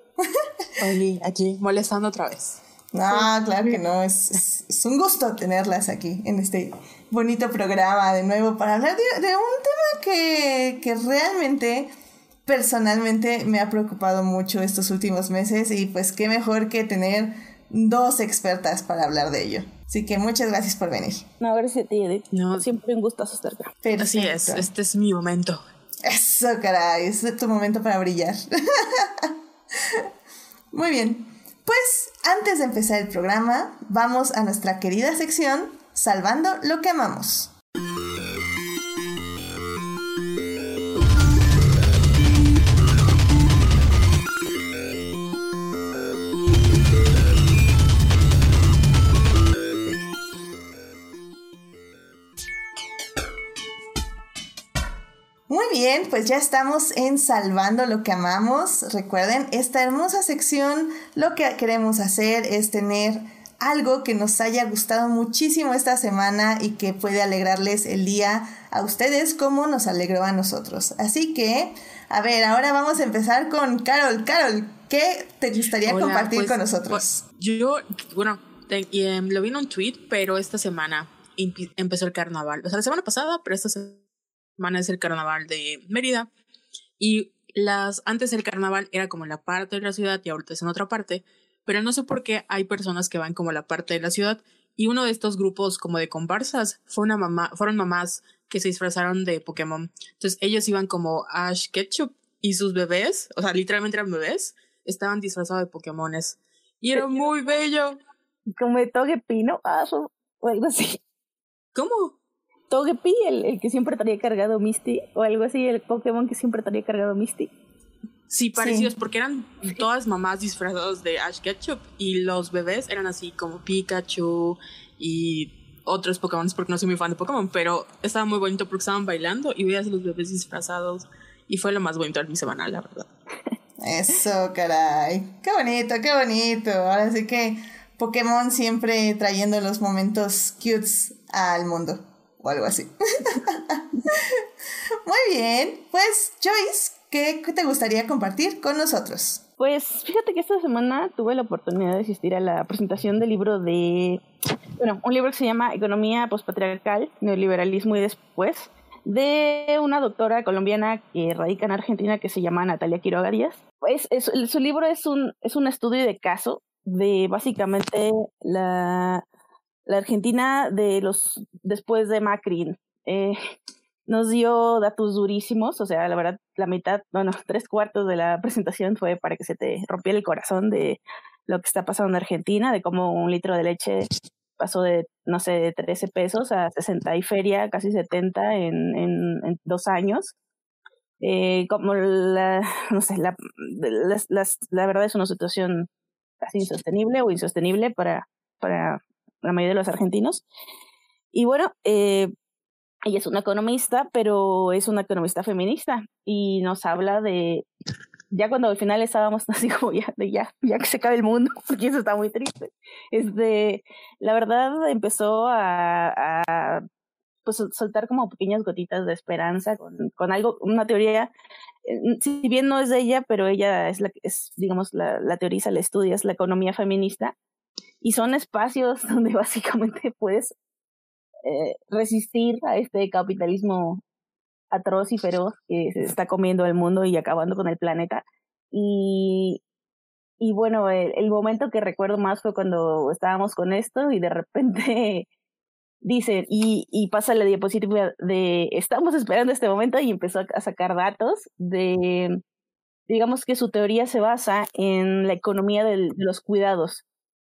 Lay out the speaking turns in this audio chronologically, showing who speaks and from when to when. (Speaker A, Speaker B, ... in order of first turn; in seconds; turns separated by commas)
Speaker A: 0.3-0.7, Speaker B: 0.8-2.6, Speaker A: 2.9-11.9, Speaker A: 12.4-21.2, Speaker C: 21.4-23.7, Speaker B: 22.3-22.6, Speaker A: 23.8-24.7, Speaker B: 24.0-25.6, Speaker A: 26.0-30.1, Speaker A: 30.7-37.5, Speaker A: 55.5-77.2, Speaker B: 75.8-84.0, Speaker B: 84.6-86.3, Speaker B: 87.0-108.0, Speaker C: 108.6-111.0, Speaker B: 111.8-112.2, Speaker C: 112.7-117.5, Speaker B: 118.3-133.1, Speaker A: 118.6-118.9, Speaker A: 133.8-144.4, Speaker A: 145.0-149.4, Speaker C: 149.6-154.2, Speaker C: 154.8-169.2, Speaker C: 169.8-173.4, Speaker C: 174.1-190.3, Speaker C: 191.2-195.9, Speaker C: 196.4-200.4, Speaker C: 201.3-202.3, Speaker C: 203.1-207.7, Speaker C: 208.3-216.8, Speaker C: 217.5-221.3, Speaker C: 221.8-227.3, Speaker C: 228.0-230.5, Speaker C: 231.4-234.0, Speaker C: 234.7-239.6, Speaker C: 240.4-245.3, Speaker C: 246.0-252.4, Speaker C: 253.1-257.0